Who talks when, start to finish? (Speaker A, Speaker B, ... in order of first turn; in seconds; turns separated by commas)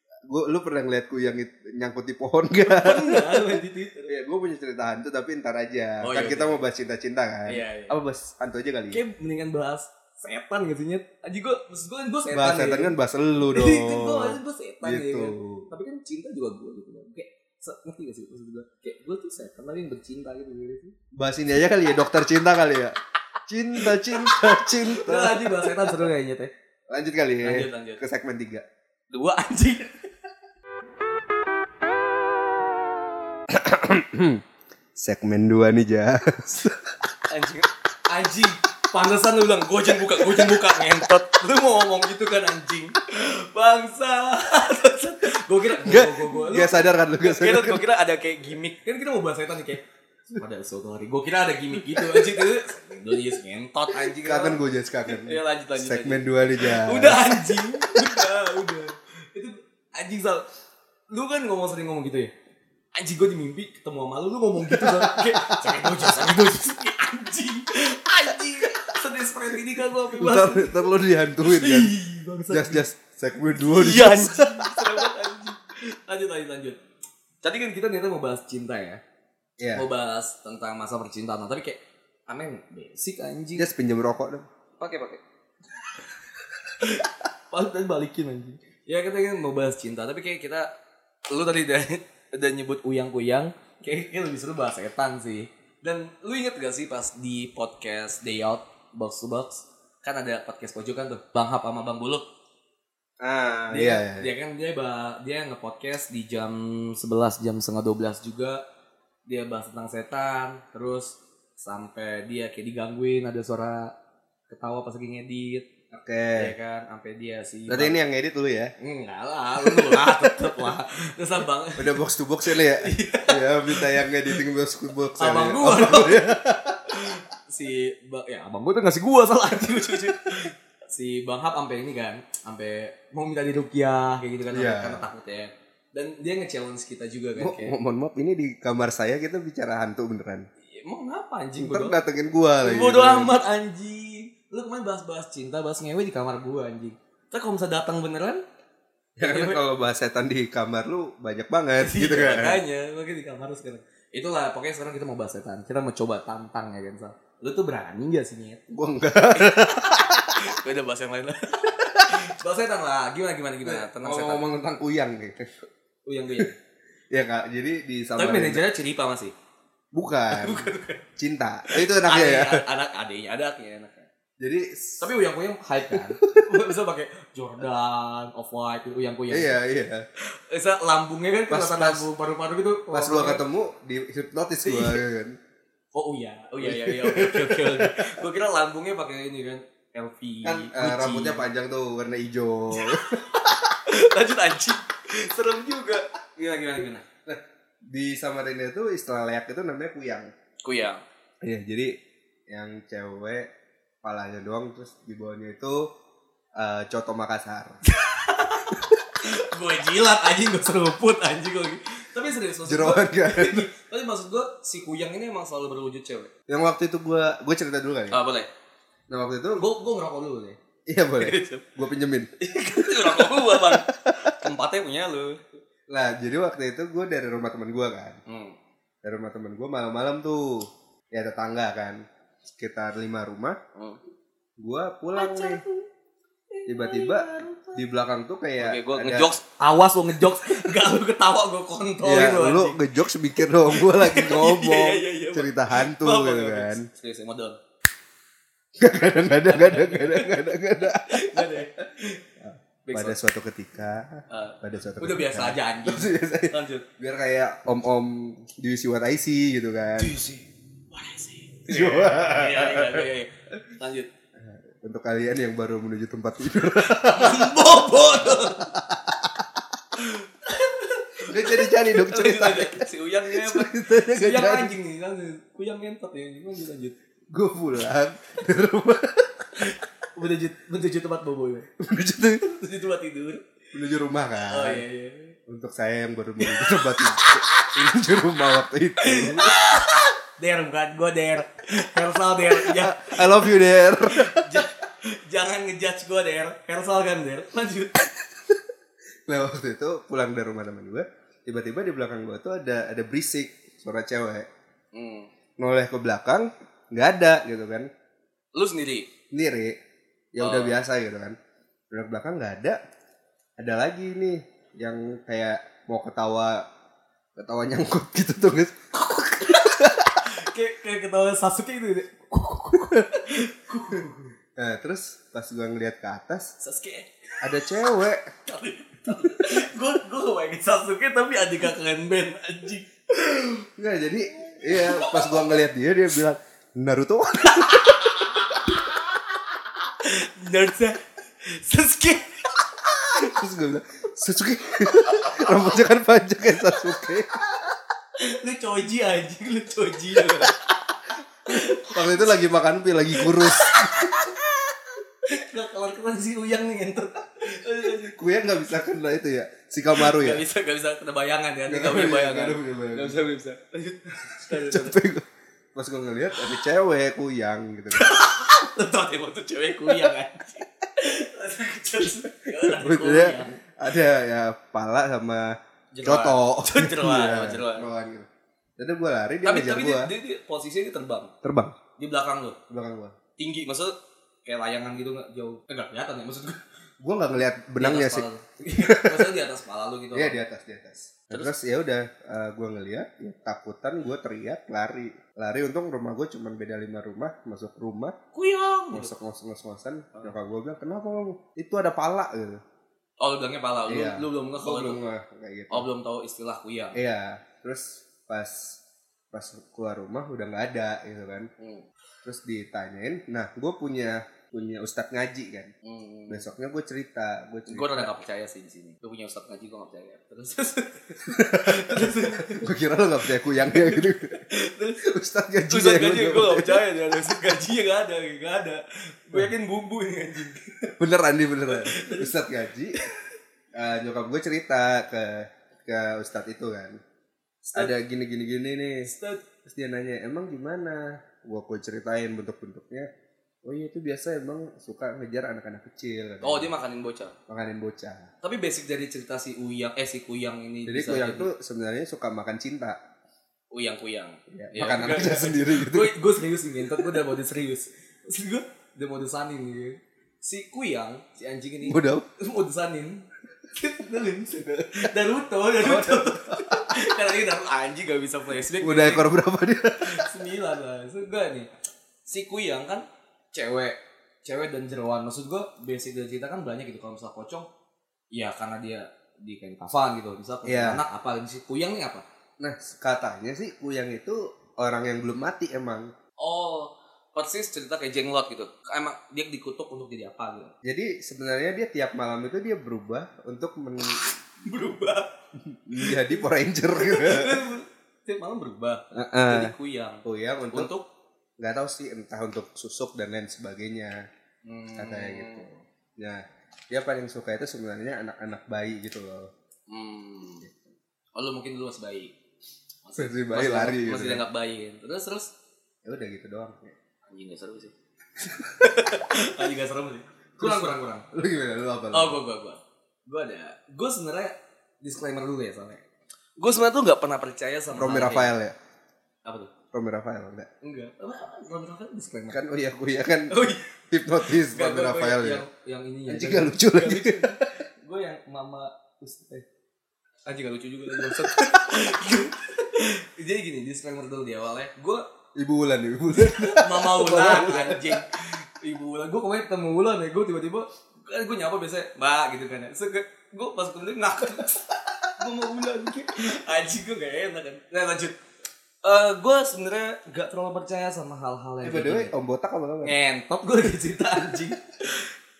Speaker A: 0.3-9.0, Speaker B: 2.6-4.1, Speaker B: 6.0-6.6, Speaker B: 7.5-8.0, Speaker B: 8.9-20.9, Speaker A: 12.3-15.7, Speaker A: 21.1-26.1, Speaker B: 23.7-26.5, Speaker A: 26.9-28.6, Speaker B: 27.4-28.0, Speaker B: 29.1-30.1, Speaker A: 33.5-34.4, Speaker A: 34.9-36.9, Speaker B: 37.3-60.5, Speaker A: 40.1-40.7, Speaker A: 45.8-47.8, Speaker A: 51.8-52.5, Speaker A: 53.9-58.3, Speaker B: 61.1-62.3, Speaker B: 62.9-72.9, Speaker A: 64.6-66.3, Speaker A: 70.1-72.0, Speaker A: 72.5-75.1, Speaker B: 73.5-76.8, Speaker B: 77.4-79.0, Speaker A: 79.6-79.9, Speaker B: 79.7-83.7, Speaker A: 83.5-84.5, Speaker B: 84.8-85.2, Speaker B: 86.8-90.7, Speaker B: 91.3-102.2, Speaker A: 103.2-104.3, Speaker B: 103.7-108.6, Speaker B: 109.2-113.9, Speaker B: 114.5-115.7, Speaker A: 115.9-116.5, Speaker B: 116.3-118.0, Speaker A: 117.7-118.7, Speaker B: 118.8-124.4, Speaker A: 119.6-120.7, Speaker A: 121.8-127.0, Speaker B: 125.2-137.7, Speaker A: 134.5-135.0, Speaker A: 137.3-140.5, Speaker B: 140.6-142.0, Speaker A: 141.6-143.4, Speaker B: 142.6-148.4, Speaker A: 149.2-152.6, Speaker B: 149.2-149.6, Speaker B: 151.8-158.6, Speaker A: 158.7-160.6, Speaker B: 159.3-164.4, Speaker A: 163.6-165.6, Speaker B: 166.1-166.5, Speaker A: 167.1-168.6, Speaker B: 168.2-169.3, Speaker A: 169.9-172.6, Speaker B: 170.3-171.0, Speaker B: 171.7-174.1, Speaker A: 174.4-175.1, Speaker B: 175.0-179.6, Speaker A: 175.9-176.7, Speaker A: 179.3-180.1, Speaker B: 180.2-183.4, Speaker A: 181.5-182.1, Speaker A: 182.9-185.4, Speaker B: 184.6-185.0, Speaker B: 185.9-191.5, Speaker A: 186.6-188.2, Speaker A: 190.4-193.2, Speaker B: 192.7-197.1, Speaker A: 197.2-200.3, Speaker B: 200.6-201.0, Speaker A: 201.4-202.0, Speaker A: 202.5-203.5, Speaker A: 204.0-205.9, Speaker A: 206.6-207.8, Speaker B: 207.8-216.3, Speaker A: 212.6-213.7, Speaker A: 216.5-218.2, Speaker B: 218.1-218.5, Speaker A: 219.1-219.6, Speaker B: 219.6-220.6, Speaker A: 220.9-224.3, Speaker B: 221.2-221.7, Speaker B: 222.4-225.6, Speaker A: 225.9-228.2, Speaker B: 228.2-228.6, Speaker A: 229.0-232.0, Speaker A: 232.6-233.6, Speaker A: 234.6-235.6, Speaker B: 235.1-235.9, Speaker B: 236.5-237.8, Speaker A: 236.7-239.3, Speaker B: 238.6-242.8, Speaker A: 242.0-246.8, Speaker B: 243.7-247.6, Speaker A: 248.8-251.7, Speaker B: 249.5-252.2, Speaker A: 252.4-260.1, Speaker B: 252.8-253.2, Speaker B: 254.3-256.8, Speaker B: 260.0-264.1, Speaker A: 261.7-263.1, Speaker A: 264.4-269.4, Speaker B: 266.6-268.7, Speaker B: 269.9-277.0, Speaker A: 271.2-274.7, Speaker A: 277.3-279.7, Speaker B: 279.6-281.7, Speaker A: 281.8-282.4, Speaker B: 282.4-283.4, Speaker A: 283.7-284.8, Speaker B: 284.5-285.4, Speaker A: 285.5-289.6, Speaker B: 286.4-287.7, Speaker B: 289.0-298.1, Speaker A: 292.4-294.6, Speaker A: 299.3-304.5, Speaker B: 304.9-305.3, Speaker A: 305.6-307.9, Speaker B: 308.5-309.1, Speaker A: 309.3-309.8, Speaker A: 310.3-311.4, Speaker B: 310.4-310.8, Speaker A: 311.9-312.8, Speaker A: 313.6-316.6, Speaker A: 317.4-320.3, Speaker B: 319.5-324.3, Speaker A: 324.6-326.5, Speaker B: 326.6-333.7, Speaker A: 327.4-328.3, Speaker A: 329.1-329.6, Speaker A: 333.8-338.1, Speaker B: 334.4-335.6, Speaker B: 337.4-343.4, Speaker A: 343.1-347.7, Speaker B: 345.0-345.7, Speaker B: 348.2-352.4, Speaker A: 350.2-350.5, Speaker A: 351.5-354.2, Speaker B: 353.1-358.2, Speaker A: 358.0-360.4, Speaker B: 359.9-365.0, Speaker A: 361.7-363.2, Speaker A: 364.4-368.1, Speaker B: 367.9-373.6, Speaker A: 369.9-370.1, Speaker A: 372.5-380.1, Speaker B: 375.9-377.9, Speaker B: 379.4-381.3, Speaker A: 381.4-381.8, Speaker B: 382.0-382.6, Speaker A: 382.7-383.1, Speaker B: 383.4-386.6, Speaker A: 387.0-389.3, Speaker B: 387.8-390.4, Speaker A: 390.1-398.1, Speaker B: 398.3-399.1, Speaker A: 398.9-402.6, Speaker B: 403.2-405.0, Speaker A: 403.8-405.9, Speaker B: 405.7-407.0, Speaker A: 406.9-408.8, Speaker A: 409.3-411.5, Speaker B: 411.6-411.9, Speaker A: 412.2-415.7, Speaker B: 415.8-416.5, Speaker A: 416.3-418.1, Speaker B: 417.7-422.7, Speaker A: 421.2-424.4, Speaker B: 423.5-425.0, Speaker A: 425.0-426.9, Speaker B: 425.6-430.9, Speaker A: 430.9-433.0, Speaker B: 431.6-433.1, Speaker A: 433.7-437.0, Speaker A: 437.6-439.1, Speaker B: 439.0-439.5, Speaker A: 439.6-443.1, Speaker A: 443.6-446.7, Speaker B: 446.4-447.3, Speaker A: 447.5-448.3, Speaker B: 448.4-451.5, Speaker A: 450.9-453.0, Speaker B: 453.7-469.3, Speaker A: 454.5-456.1, Speaker A: 461.8-462.2, Speaker A: 465.8-466.9, Speaker A: 468.8-470.3, Speaker B: 470.0-471.7, Speaker B: 472.2-477.7, Speaker B: 478.3-482.2, Speaker A: 480.6-481.0, Speaker A: 482.6-486.1, Speaker B: 486.4-490.7, Speaker A: 490.8-494.2, Speaker B: 494.6-495.3, Speaker A: 495.6-497.6, Speaker B: 496.0-501.1, Speaker A: 499.1-500.9, Speaker A: 501.6-504.3, Speaker B: 504.6-505.7, Speaker A: 504.9-509.5, Speaker B: 509.9-510.7, Speaker B: 511.4-512.3, Speaker B: 513.0-515.5, Speaker A: 513.2-514.4, Speaker A: 516.0-516.9, Speaker B: 517.3-517.9, Speaker A: 518.4-518.8, Speaker B: 518.8-521.2, Speaker A: 520.6-522.4, Speaker B: 522.1-526.0, Speaker B: 526.6-528.5, Speaker A: 527.9-528.7, Speaker B: 529.4-529.7, Speaker A: 529.9-530.7, Speaker B: 530.8-532.6, Speaker A: 532.5-533.6, Speaker B: 533.5-539.6, Speaker A: 534.1-535.6, Speaker A: 536.3-537.6, Speaker B: 540.5-545.2, Speaker A: 541.1-541.6, Speaker A: 545.5-548.2, Speaker B: 546.3-558.4, Speaker B: 559.0-562.3, Speaker A: 561.8-563.1, Speaker B: 563.0-565.3